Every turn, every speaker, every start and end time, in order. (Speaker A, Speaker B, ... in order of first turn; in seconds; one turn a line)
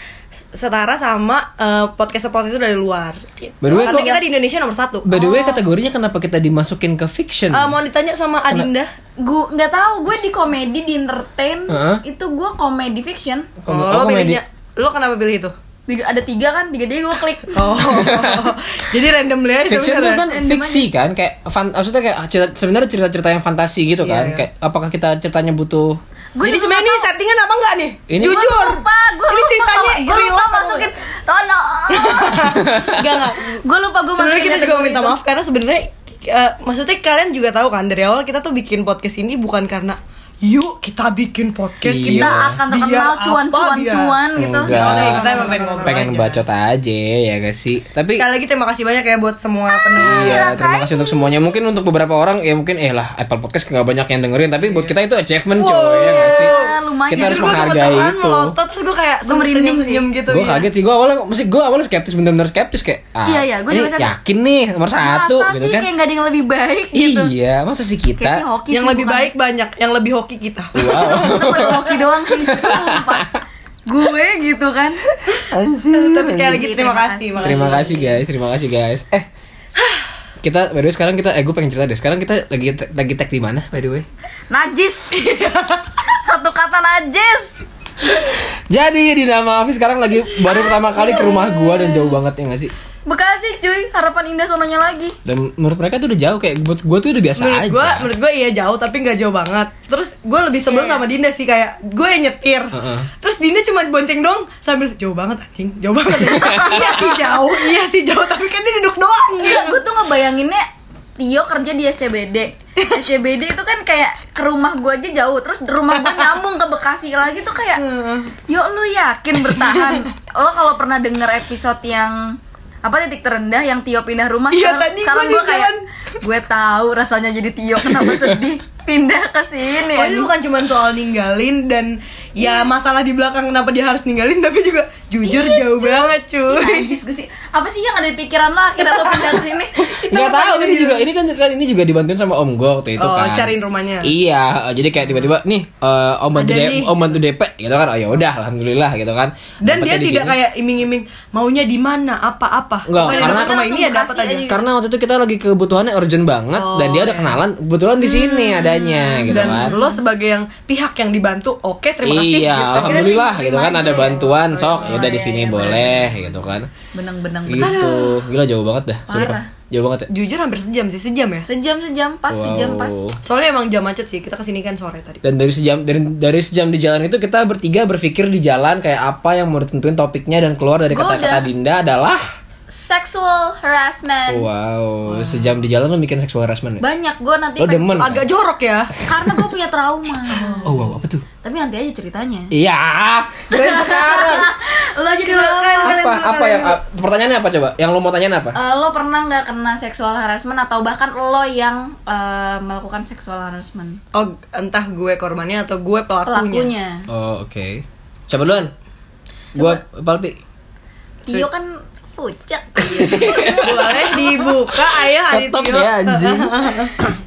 Speaker A: 0.4-5.2
Speaker B: 3.6-4.2
Speaker C: 3.7-4.2
Speaker B: 5.0-7.8
Speaker C: 5.1-5.6
Speaker A: 7.5-8.9
Speaker C: 9.2-13.5
Speaker B: 11.7-12.0
Speaker B: 13.6-14.4
Speaker A: 13.7-15.5
Speaker C: 15.9-17.8
Speaker A: 17.5-20.3
Speaker B: 17.8-18.5
Speaker B: 19.7-26.0
Speaker C: 20.3-20.9
Speaker A: 24.0-24.4
Speaker C: 26.4-27.1
Speaker A: 26.4-30.9
Speaker B: 28.1-28.4
Speaker C: 28.2-32.6
Speaker A: 31.9-33.6
Speaker B: 32.5-33.2
Speaker C: 33.6-35.1
Speaker A: 34.1-44.2
Speaker B: 41.8-42.6
Speaker C: 42.0-45.8
Speaker B: 44.4-48.2
Speaker A: 44.7-46.4
Speaker A: 48.1-50.5
Speaker C: 49.7-51.4
Speaker B: 50.0-56.6
Speaker A: 55.6-60.7
Speaker C: 55.7-57.7
Speaker B: 57.1-58.5
Speaker C: 59.2-60.0
Speaker B: 60.3-65.9
Speaker C: 63.2-64.1
Speaker C: 65.0-67.3
Speaker B: 66.9-68.4
Speaker C: 68.2-69.3
Speaker A: 68.7-70.8
Speaker B: 70.7-73.4
Speaker C: 70.8-75.0
Speaker B: 75.3-76.6
Speaker A: 75.9-78.1
Speaker C: 76.3-78.0
Speaker B: 77.4-79.3
Speaker B: 80.4-84.0
Speaker C: 84.5-87.6
Speaker B: 88.0-92.7
Speaker C: 90.5-92.1
Speaker C: 93.0-95.2
Speaker B: 95.2-98.1
Speaker A: 97.4-109.8
Speaker C: 100.7-101.0
Speaker B: 102.7-103.1
Speaker C: 106.1-107.7
Speaker B: 106.2-107.0
Speaker C: 109.4-110.6
Speaker C: 111.2-117.8
Speaker A: 115.9-116.3
Speaker A: 117.8-118.3
Speaker C: 118.5-130.3
Speaker A: 119.5-120.1
Speaker A: 124.5-125.8
Speaker B: 128.0-128.4
Speaker A: 129.9-136.9
Speaker C: 132.4-132.7
Speaker C: 135.2-139.9
Speaker A: 138.8-141.1
Speaker B: 139.8-150.4
Speaker A: 143.0-144.1
Speaker A: 146.3-147.1
Speaker A: 149.6-154.5
Speaker B: 152.9-153.6
Speaker C: 153.0-154.6
Speaker B: 154.5-159.7
Speaker A: 156.6-157.4
Speaker C: 158.0-160.0
Speaker A: 159.3-163.0
Speaker B: 162.0-166.7
Speaker C: 162.8-166.1
Speaker A: 164.5-165.0
Speaker A: 165.6-166.0
Speaker C: 166.9-167.8
Speaker B: 167.4-170.1
Speaker A: 167.6-168.2
Speaker C: 169.1-169.5
Speaker A: 170.1-171.5
Speaker C: 171.4-173.0
Speaker B: 172.3-173.2
Speaker A: 173.2-175.2
Speaker B: 175.2-182.2
Speaker C: 180.9-181.5
Speaker C: 182.7-184.5
Speaker B: 184.3-186.8
Speaker A: 185.1-185.5
Speaker C: 186.8-188.1
Speaker B: 187.6-188.2
Speaker A: 188.0-188.9
Speaker C: 189.0-190.7
Speaker A: 190.3-190.9
Speaker B: 190.7-191.2
Speaker C: 191.4-192.5
Speaker B: 192.5-194.5
Speaker C: 193.5-196.8
Speaker A: 195.2-195.9
Speaker B: 195.8-198.6
Speaker C: 198.5-204.0
Speaker A: 204.1-206.7
Speaker C: 206.3-207.1
Speaker B: 207.1-208.7
Speaker C: 209.5-209.8
Speaker B: 209.5-210.4
Speaker C: 211.3-214.6
Speaker B: 212.8-214.1
Speaker A: 213.0-216.9
Speaker B: 215.3-216.7